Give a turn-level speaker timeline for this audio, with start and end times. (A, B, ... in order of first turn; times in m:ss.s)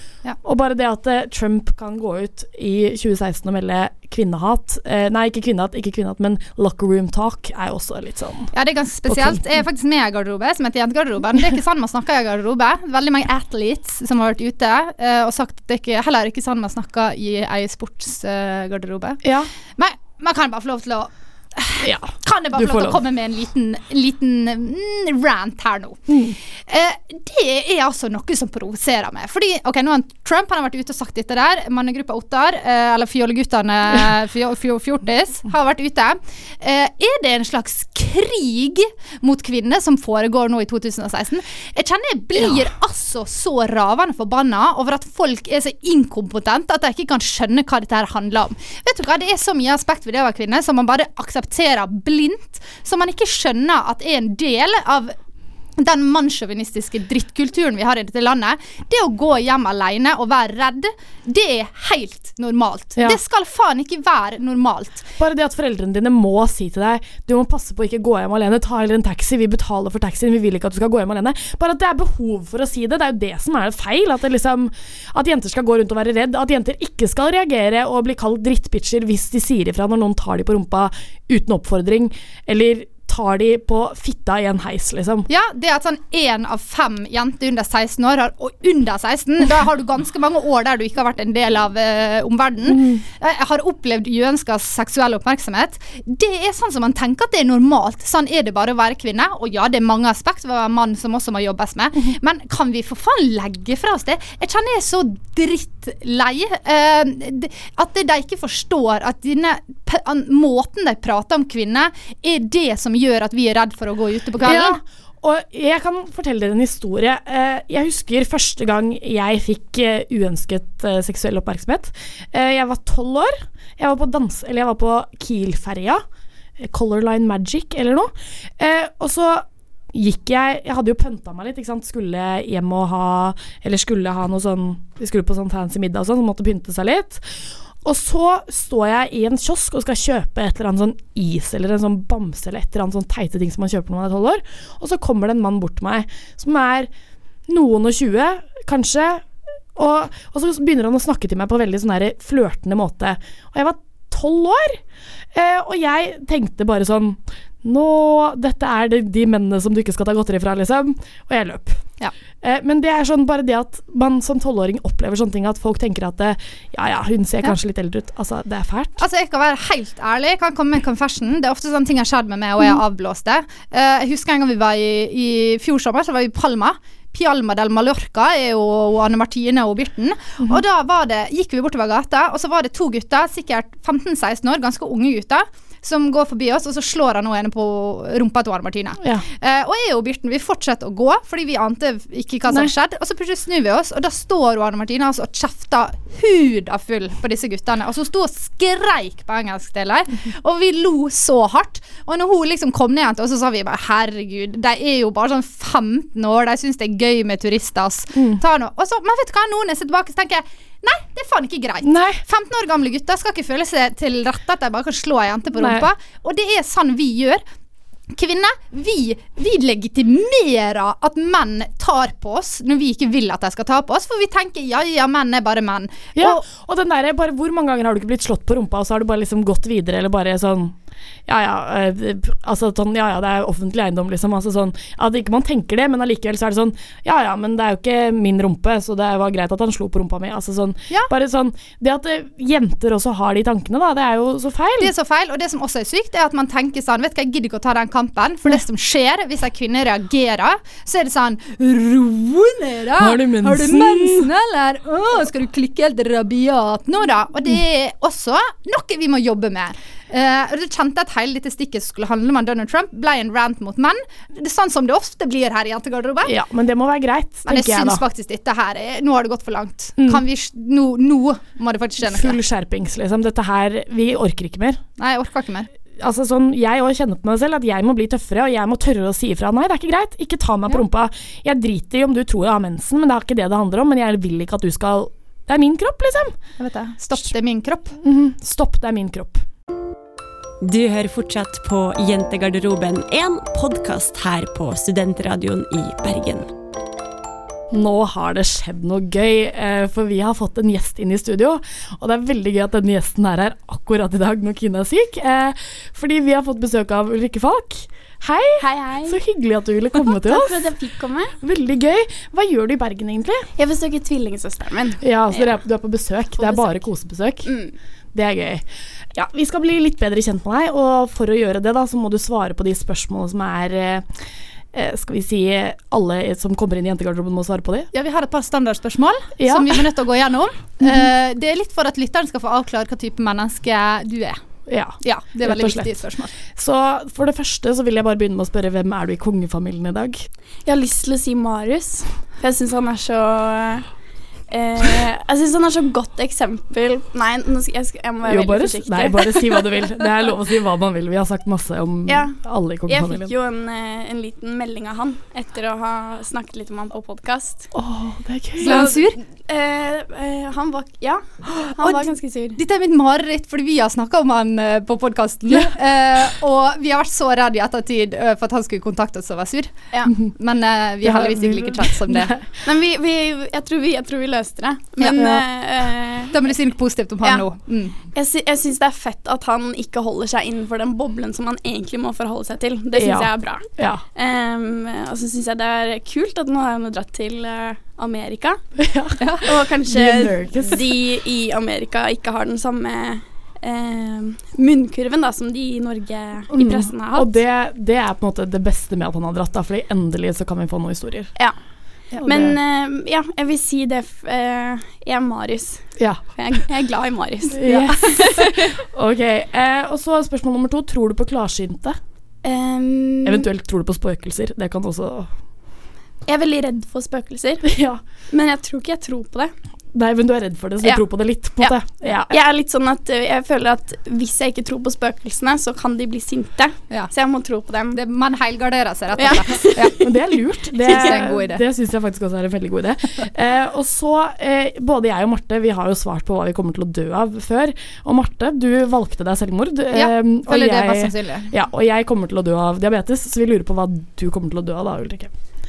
0:00.4-0:08.5 A
0:08.5-0:19.2 B
0:09.1-0:09.4 A
0:19.2-0:19.5 A
0:19.8-0:55.1 B
0:21.8-0:23.0 A
0:26.1-0:26.4 A
0:42.4-0:42.6 A
0:55.8-1:05.0 B
1:05.2-1:25.3 A
1:25.3-1:54.8 B
1:32.7-1:33.0 A
1:54.4-2:06.0 A
2:06.6-2:26.9 A
2:27.5-2:34.8 A
2:35.3-2:41.8 A
2:42.4-2:49.0 A
2:49.0-3:37.4 B
3:28.1-3:28.4 A
3:31.8-3:32.2 A
3:35.6-3:35.9 A
3:38.1-3:46.4 B
3:46.2-3:50.8 A
3:51.3-4:04.9 A
4:04.8-4:26.3 B
4:13.0-4:14.3 A
4:26.2-4:28.0 A
4:27.5-4:32.4 B
4:32.0-4:34.8 A
4:35.0-4:35.7 B
4:36.0-4:46.4 A
4:46.6-4:48.0 B
4:48.0-4:49.4 A
4:50.6-4:56.5 C
4:57.7-5:10.6 A
5:08.6-5:09.2 D
5:10.2-5:11.4 D
5:11.4-5:13.5 A
5:13.6-5:15.5 D
5:15.0-5:17.5 A
5:16.4-5:16.7 D
5:17.4-5:17.7 D
5:18.1-5:24.1 A
5:24.7-5:27.9 A
5:27.9-5:34.4 B
5:29.4-5:29.9 A
5:34.7-5:36.0 A
5:35.0-5:36.3 B
5:36.5-5:40.3 A
5:40.6-5:43.9 D
5:44.5-5:49.6 D
5:48.2-5:53.3 A
5:52.1-5:57.7 D
5:57.7-5:58.9 A
5:58.6-5:59.2 B
5:58.6-6:02.6 D
6:01.8-6:12.3 B
6:11.0-6:12.4 A
6:12.6-6:16.3 D
6:15.0-6:15.4 A
6:16.3-6:18.0 B
6:18.1-6:28.6 D
6:22.9-6:24.0 A
6:28.8-6:29.3 A
6:29.4-6:37.4 D
6:29.9-6:30.9 A
6:36.5-6:41.4 A
6:42.2-6:42.5 A
6:42.2-6:48.8 D
6:46.0-6:46.2 A
6:47.5-6:52.0 A
6:52.4-6:53.5 D
6:53.2-6:55.3 A
6:56.3-6:57.6 D
6:57.6-6:58.0 A
6:58.3-6:59.5 D
6:59.9-7:02.3 A
7:02.3-7:08.0 D
7:07.9-7:09.9 B
7:09.2-7:10.3 D
7:10.0-7:25.3 A
7:10.8-7:11.1 D
7:10.9-7:11.6 B
7:19.9-7:21.5 B